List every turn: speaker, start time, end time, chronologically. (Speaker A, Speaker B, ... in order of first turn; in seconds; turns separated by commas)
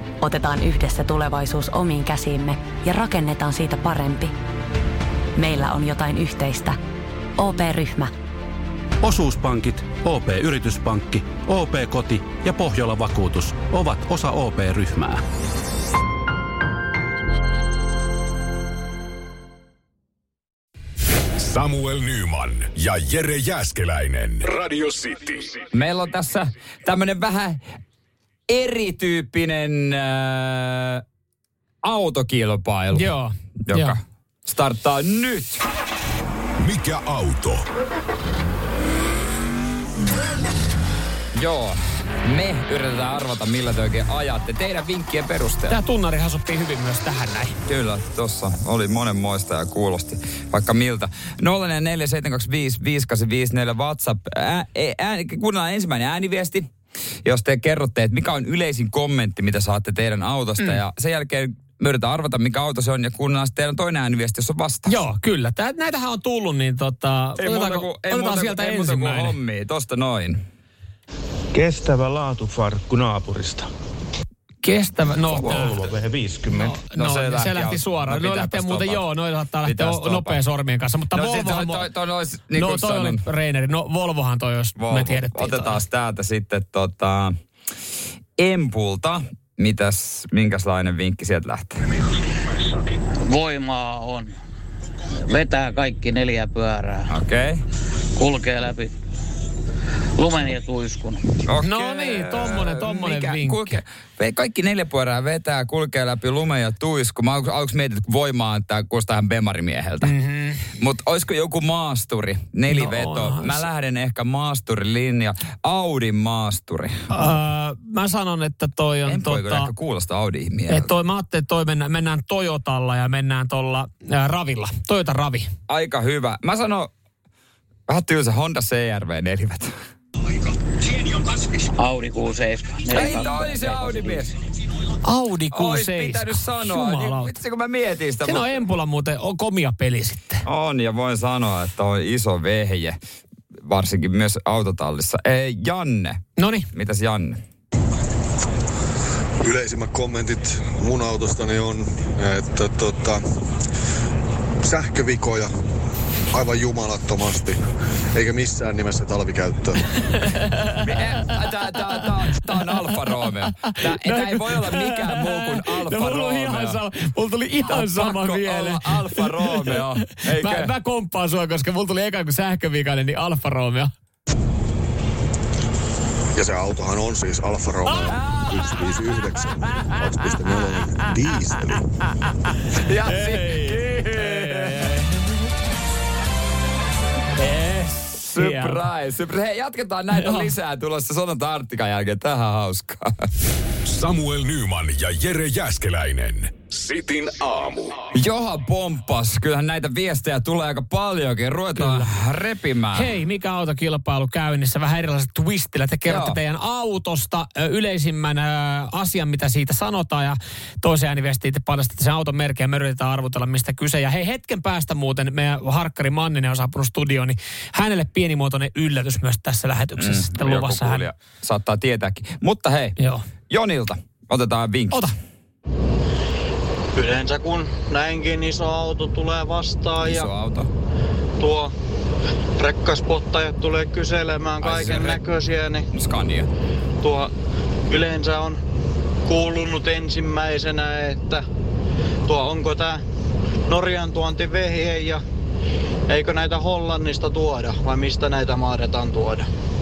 Speaker A: 0.2-4.3, Speaker A: 5.4-6.8, Speaker A: 7.4-8.1, Speaker B: 9.0-15.2, Speaker C: 21.4-25.5, Speaker D: 25.7-27.6, Speaker D: 28.5-31.0, Speaker D: 31.8-33.1, Speaker E: 32.9-34.0, Speaker D: 33.6-35.6, Speaker C: 36.6-37.6, Speaker D: 41.4-45.8, Speaker E: 45.7-47.6, Speaker D: 47.7-56.7, Speaker D: 57.2-65.0, Speaker E: 64.8-69.4, Speaker D: 67.4-70.4, Speaker F: 71.5-73.7, Speaker E: 74.6-76.0, Speaker D: 75.4-75.7, Speaker F: 75.7-76.6, Speaker E: 76.5-81.9, Speaker D: 76.9-79.1, Speaker D: 79.7-80.4, Speaker D: 81.1-83.2, Speaker E: 82.5-85.8, Speaker D: 84.8-87.3, Speaker D: 88.4-91.8, Speaker G: 93.2-94.3, Speaker G: 95.3-97.1, Speaker D: 97.1-97.6, Speaker G: 98.2-98.9, Speaker G: 100.2-101.2, Speaker D: 101.5-110.2, Speaker E: 101.6-103.8, Speaker E: 110.0-110.6, Speaker D: 110.7-116.9, Speaker E: 112.7-113.7, Speaker E: 117.1-119.7, Speaker D: 119.0-120.9, Speaker E: 120.7-125.5, Speaker D: 125.7-126.9, Speaker D: 127.9-129.7, Speaker G: 131.8-134.1, Speaker D: 132.9-134.4, Speaker E: 135.0-137.4, Speaker D: 135.5-138.6, Speaker E: 138.2-140.4, Speaker D: 140.4-143.0, Speaker D: 143.7-147.4, Speaker E: 146.4-146.7, Speaker H: 149.4-153.2, Speaker H: 154.6-155.5, Speaker H: 156.3-157.6, Speaker H: 158.2-159.8, Speaker E: 160.5-161.0, Speaker D: 160.8-166.8, Speaker E: 163.9-173.9, Speaker D: 167.7-170.7, Speaker H: 176.4-181.8, Speaker D: 182.7-185.0, Speaker E: 183.0-185.2, Speaker E: 187.4-188.9, Speaker D: 188.3-193.2, Speaker E: 190.1-190.5, Speaker C: 193.8-197.9, Speaker D: 198.1-203.2, Speaker E: 201.8-202.1, Speaker E: 202.9-221.1, Speaker D: 206.1-206.4, Speaker D: 220.0-223.0, Speaker E: 223.0-223.2, Speaker D: 223.5-225.1, Speaker I: 226.9-230.3, Speaker D: 230.0-230.7, Speaker I: 231.4-231.7, Speaker I: 232.6-235.8, Speaker D: 234.6-235.2, Speaker D: 235.9-236.5, Speaker I: 237.0-237.3, Speaker I: 237.9-238.6, Speaker I: 239.3-241.4, Speaker I: 242.3-243.0, Speaker I: 243.7-245.2, Speaker I: 246.1-249.5